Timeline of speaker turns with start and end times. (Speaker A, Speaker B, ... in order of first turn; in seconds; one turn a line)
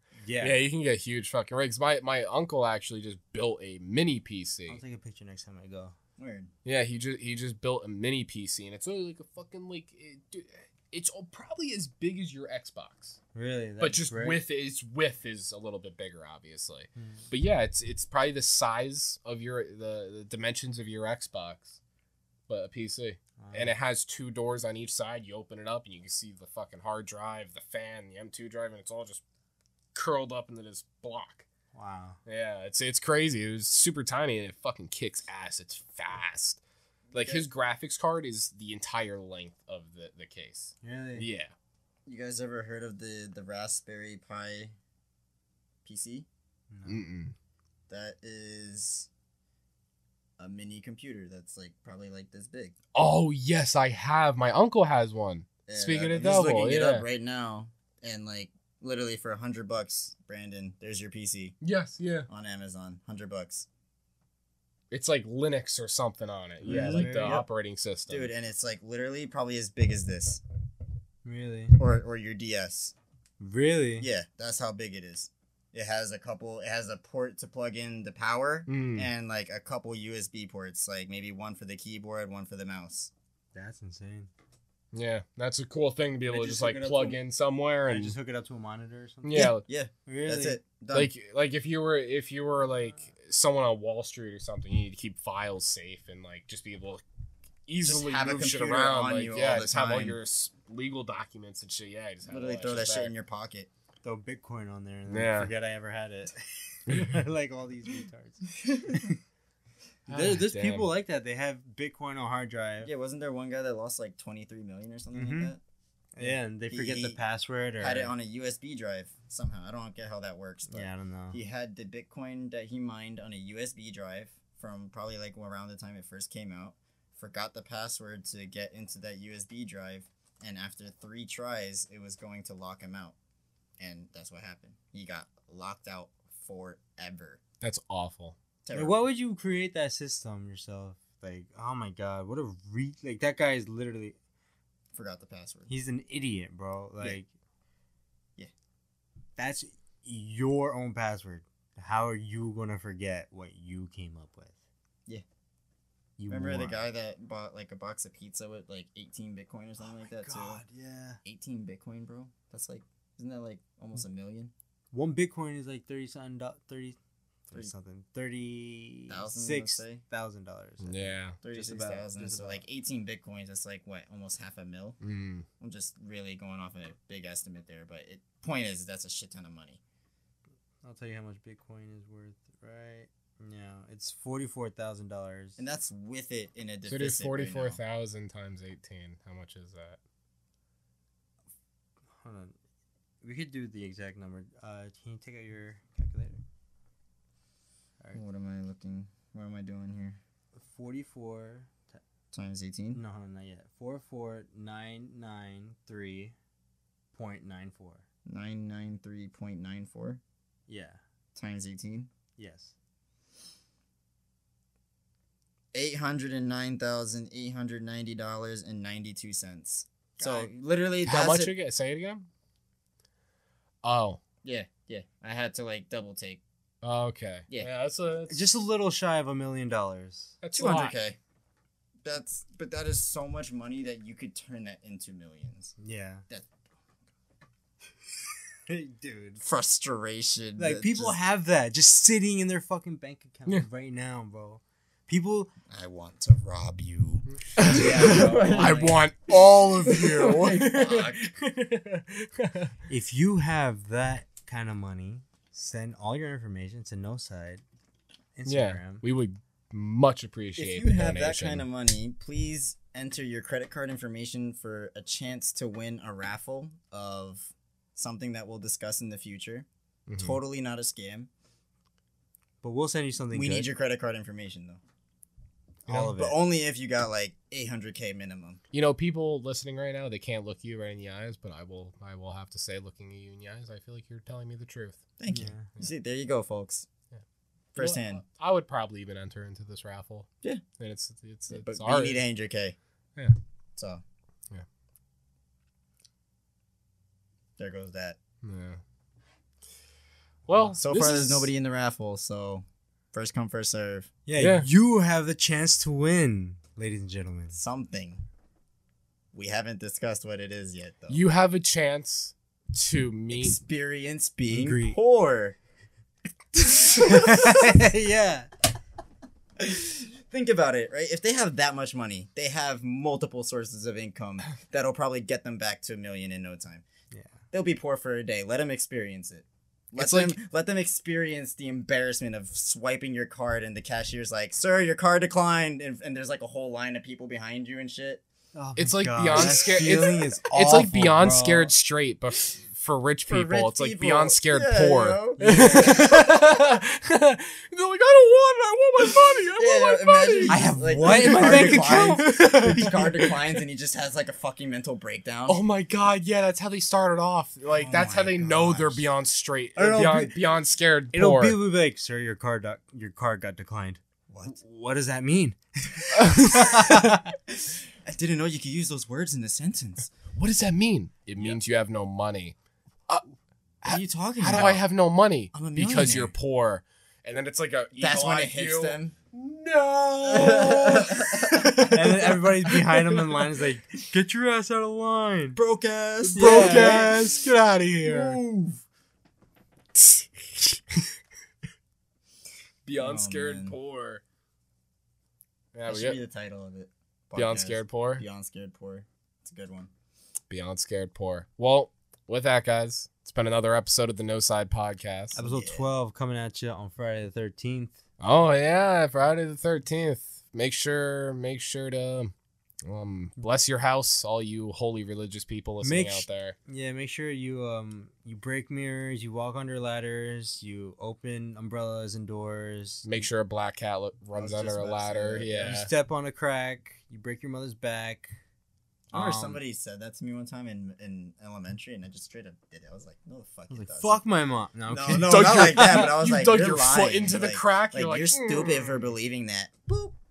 Speaker A: 0.2-0.7
Speaker B: 0.4-4.8
Speaker A: 4.7-6.0
Speaker C: 6.2-6.5
Speaker B: 6.7-13.2
Speaker A: 13.3-14.4
Speaker B: 13.8-21.8
Speaker A: 17.0-17.3
Speaker B: 22.5-29.2
Speaker A: 23.4-23.8
Speaker B: 29.9-31.5
Speaker A: 31.7-32.2
Speaker B: 32.3-36.6
Speaker C: 37.1-37.5
Speaker B: 37.1-41.5
Speaker A: 40.8-41.3
Speaker C: 42.1-44.7
Speaker C: 45.9-46.3
Speaker A: 46.7-47.0
Speaker B: 46.9-47.3
Speaker C: 47.9-49.1
Speaker C: 50.4-52.8
Speaker B: 52.9-57.1
Speaker C: 55.7-61.6
Speaker B: 61.6-62.3
Speaker C: 62.3-63.7
Speaker B: 64.9-68.3
Speaker C: 66.6-67.5
Speaker A: 66.7-67.4
Speaker C: 68.1-70.4
Speaker A: 71.2-71.8
Speaker C: 71.8-72.9
Speaker A: 73.4-74.1
Speaker C: 74.0-83.1
Speaker B: 78.7-79.1
Speaker A: 83.5-84.3
Speaker B: 84.9-88.2
Speaker A: 86.3-87.2
Speaker A: 87.9-89.5
Speaker B: 89.2-89.6
Speaker C: 89.3-91.1
Speaker A: 90.1-90.6
Speaker B: 90.9-97.0
Speaker B: 97.7-103.1
Speaker C: 97.8-100.2
Speaker C: 102.3-103.7
Speaker A: 104.0-109.2
Speaker B: 105.1-105.5
Speaker B: 106.9-107.2
Speaker B: 110.1-110.9
Speaker A: 110.1-112.9
Speaker C: 112.8-115.6
Speaker A: 115.1-115.5
Speaker A: 116.2-118.1
Speaker C: 116.2-117.2
Speaker C: 117.8-133.2
Speaker A: 120.7-121.4
Speaker C: 133.8-137.4
Speaker B: 137.6-138.4
Speaker C: 138.7-139.0
Speaker A: 138.7-144.2
Speaker C: 144.9-145.7
Speaker A: 145.7-147.3
Speaker A: 149.4-154.6
Speaker A: 156.2-156.9
Speaker C: 156.3-160.6
Speaker A: 159.8-161.2
Speaker C: 161.2-164.5
Speaker A: 164.9-167.0
Speaker A: 167.5-172.6
Speaker C: 169.1-170.0
Speaker B: 170.8-171.4
Speaker C: 171.4-175.0
Speaker B: 175.0-175.5
Speaker C: 175.6-179.8
Speaker A: 180.8-185.6
Speaker C: 185.6-187.8
Speaker B: 186.9-190.0
Speaker A: 192.2-192.6
Speaker A: 193.2-196.4
Speaker C: 198.1-200.2
Speaker A: 200.6-202.0
Speaker C: 202.3-203.0
Speaker A: 202.9-206.3
Speaker A: 207.1-208.0
Speaker C: 208.3-210.2
Speaker A: 210.7-211.0
Speaker C: 211.3-212.1
Speaker A: 212.4-212.7
Speaker C: 215.7-221.5
Speaker A: 220.2-220.5
Speaker B: 221.0-222.3
Speaker B: 223.8-224.2
Speaker C: 224.4-226.4
Speaker B: 226.8-228.5
Speaker A: 228.3-230.3
Speaker B: 230.4-231.0
Speaker C: 230.5-231.2
Speaker C: 232.0-235.7
Speaker A: 235.8-236.2
Speaker C: 236.3-236.6
Speaker A: 238.7-239.4
Speaker C: 239.4-241.2
Speaker A: 240.6-245.5
Speaker C: 245.7-249.1
Speaker B: 247.6-252.8
Speaker A: 248.1-248.5
Speaker C: 249.8-251.3
Speaker A: 252.9-257.6
Speaker A: 258.4-259.0
Speaker B: 258.5-261.7
Speaker C: 260.6-269.7
Speaker B: 270.1-270.4
Speaker C: 270.2-271.3
Speaker A: 272.6-273.7
Speaker C: 273.3-274.8
Speaker A: 275.9-276.4
Speaker C: 275.9-278.6
Speaker B: 278.7-285.0
Speaker C: 285.2-286.9
Speaker A: 285.3-285.7
Speaker C: 287.8-288.2
Speaker B: 287.8-290.3
Speaker B: 290.8-292.2
Speaker C: 291.5-292.8
Speaker C: 293.8-294.0
Speaker C: 297.6-298.2
Speaker B: 298.4-298.8
Speaker B: 300.5-301.5
Speaker C: 300.8-304.1
Speaker A: 304.3-307.6
Speaker B: 304.4-304.7
Speaker C: 307.5-308.2
Speaker C: 309.3-311.2
Speaker B: 311.1-313.6
Speaker C: 313.3-315.6
Speaker A: 314.5-315.0
Speaker A: 316.7-318.5
Speaker C: 316.7-317.8
Speaker C: 319.6-326.9
Speaker A: 327.1-327.4
Speaker C: 327.5-338.2
Speaker B: 329.9-330.4
Speaker A: 338.6-341.7
Speaker B: 338.8-353.1
Speaker C: 343.3-346.1
Speaker A: 345.4-346.5
Speaker C: 349.6-355.6
Speaker A: 350.5-353.3
Speaker B: 355.5-361.6
Speaker C: 357.7-359.1
Speaker C: 359.8-360.4
Speaker A: 361.1-367.4
Speaker C: 364.3-364.6
Speaker B: 366.2-366.7
Speaker C: 367.5-370.1
Speaker B: 370.4-372.6
Speaker B: 373.8-382.7
Speaker C: 373.9-374.9
Speaker C: 375.5-376.4
Speaker C: 378.0-379.1
Speaker C: 380.2-382.3
Speaker A: 381.9-385.6
Speaker C: 385.6-387.2
Speaker B: 386.2-388.4
Speaker A: 386.4-387.4
Speaker C: 388.1-388.8
Speaker B: 390.0-391.0
Speaker B: 392.9-394.2
Speaker C: 393.0-393.8
Speaker B: 395.8-396.2
Speaker C: 395.9-399.9
Speaker B: 397.4-398.2
Speaker B: 400.5-405.4
Speaker C: 405.4-405.9
Speaker A: 405.4-408.0
Speaker B: 408.2-412.3
Speaker B: 412.9-416.6
Speaker A: 415.8-423.2
Speaker B: 423.0-425.9
Speaker C: 424.4-425.9
Speaker A: 425.5-428.4
Speaker C: 429.1-434.2
Speaker A: 429.1-429.6
Speaker A: 433.7-436.0
Speaker C: 434.9-440.1
Speaker B: 435.2-439.0